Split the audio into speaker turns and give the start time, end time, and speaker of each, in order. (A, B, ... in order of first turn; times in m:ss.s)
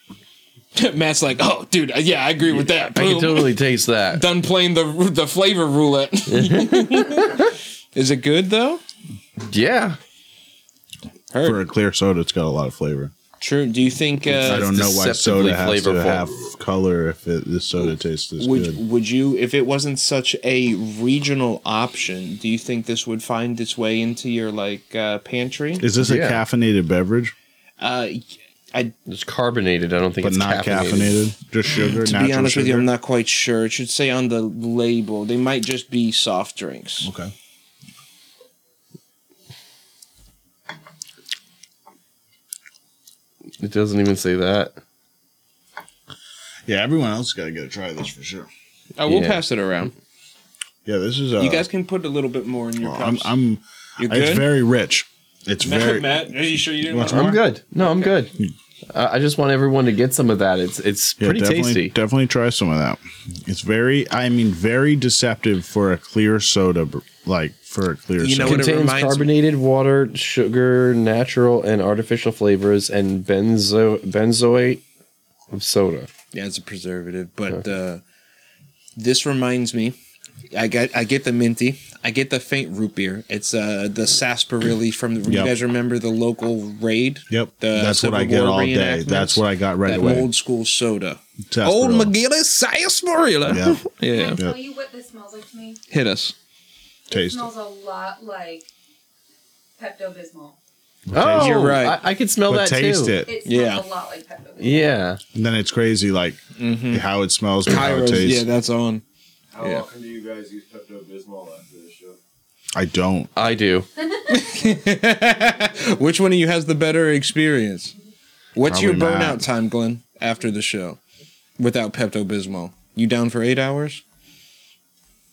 0:00.8-0:03.6 A
0:02.5-0:04.2 B
0:04.1-0:08.8 A
0:06.3-0:07.5 B
0:09.5-0:10.0 B
0:11.3-0:11.6 A
0:11.4-0:13.1 C
0:13.4-0:14.7 A
0:14.4-0:18.8 C
0:14.4-0:16.3 B
0:18.4-0:25.9 A
0:25.8-0:27.3 C
0:26.0-0:26.4 B
0:27.8-0:28.9 A
0:29.1-0:31.2 B
0:30.2-0:32.9 C
0:31.9-0:37.1 A
0:37.0-0:37.3 C
0:43.6-0:44.8 B
0:46.7-0:48.5 C
0:49.0-0:49.9 A
0:49.0-0:49.4 B
0:50.8-0:51.7 C
0:51.4-0:53.3 A
0:52.8-0:57.4 C
0:54.0-0:54.5 A
0:55.6-0:58.2 A
0:57.0-0:58.3 B
0:58.9-1:01.9 B
1:01.2-1:08.7 C
1:08.2-1:09.3 A
1:08.4-1:14.8 B
1:15.5-1:16.1 B
1:16.3-1:18.0 A
1:19.0-1:20.0 A
1:20.5-1:34.4 A
1:25.2-1:25.6 C
1:27.3-1:30.3 C
1:31.5-1:32.1 C
1:33.5-1:33.8 C
1:34.1-1:35.8 D
1:35.9-1:36.4 A
1:37.1-1:38.7 D
1:37.1-1:37.5 C
1:39.8-1:40.6 D
1:41.1-1:41.8 C
1:41.1-1:43.2 B
1:41.3-1:42.0 A
1:42.4-1:43.3 C
1:43.2-1:45.0 D
1:43.4-1:43.8 A
1:44.6-1:45.2 B
1:45.3-1:48.5 C
1:46.6-1:47.0 A
1:47.6-1:49.0 A
1:49.5-1:52.2 E
1:49.6-1:49.9 A
1:52.8-1:53.3 C
1:53.4-1:53.9 B
1:54.3-1:57.9 A
1:58.6-2:01.0 A
1:58.6-1:59.4 C
2:01.6-2:04.0 A